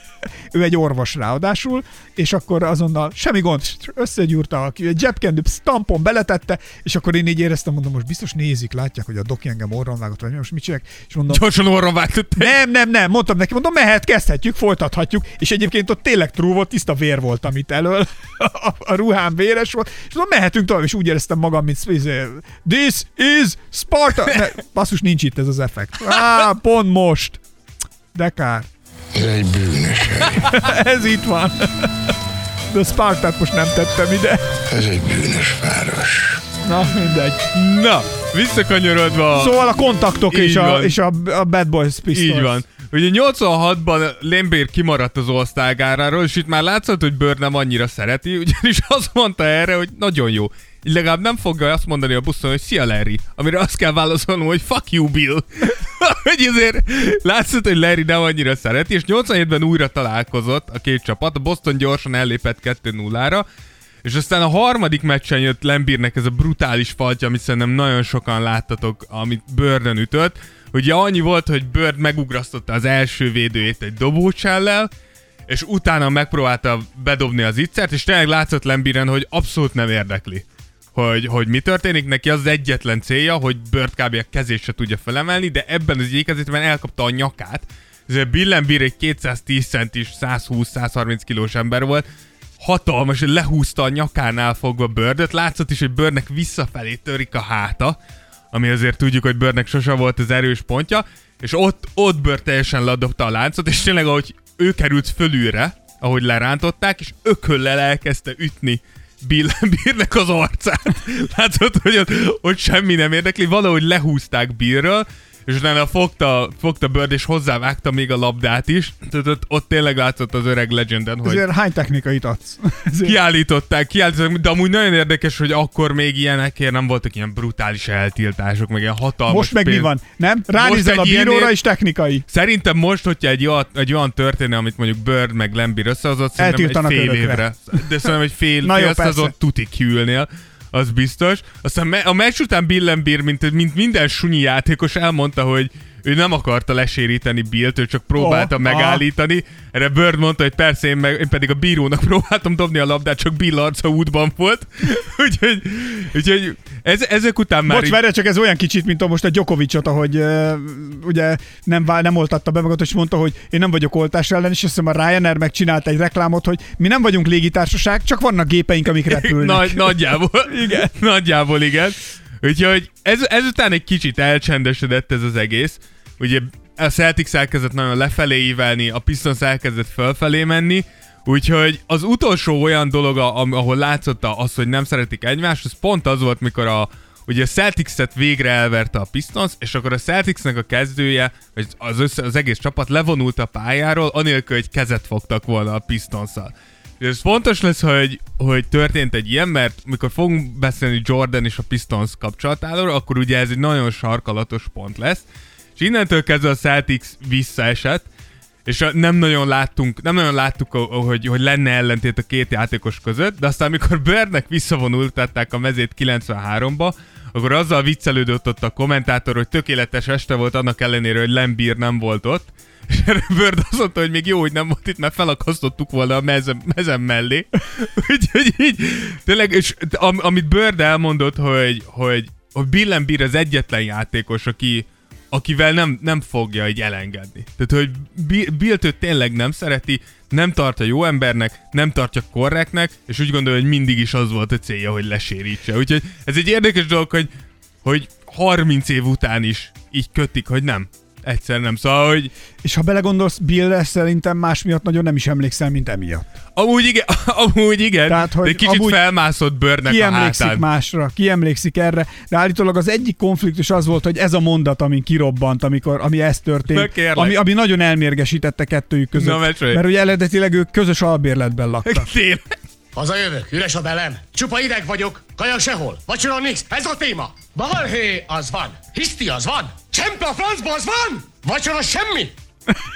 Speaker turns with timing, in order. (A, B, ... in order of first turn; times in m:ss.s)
0:00.5-0:11.4 A
0:11.3-0:12.5 B
0:12.4-0:27.4 A
0:28.1-0:28.7 A
0:29.1-0:30.5 C
0:30.4-0:31.9 A
0:32.7-0:34.5 A
0:34.7-0:36.4 C
0:36.6-0:37.4 A
0:37.5-0:39.6 B
0:39.3-0:42.6 A
0:40.3-0:41.0 B
0:42.1-1:03.4 B
1:04.0-1:14.9 B
1:15.5-1:32.0 B
1:32.6-1:38.0 B
1:38.5-2:01.4 B
2:01.2-2:03.2 A
2:03.0-2:09.9 B
2:09.3-2:12.2 A
2:10.6-2:11.5 B
2:12.3-2:38.0 B
2:16.4-2:18.1 A
2:18.6-2:19.3 A
2:28.2-2:29.0 A
2:37.6-2:50.9 A
2:49.0-3:25.2 B
3:25.8-3:28.1 B
3:28.6-4:07.3 B
4:07.8-4:12.3 B
4:12.6-4:16.3 A
4:16.6-4:20.6 B
4:18.1-4:19.0 A
4:19.8-4:32.1 A
4:26.7-4:27.4 B
4:29.1-4:29.8 B
4:31.8-4:32.6 B
4:32.9-4:42.3 D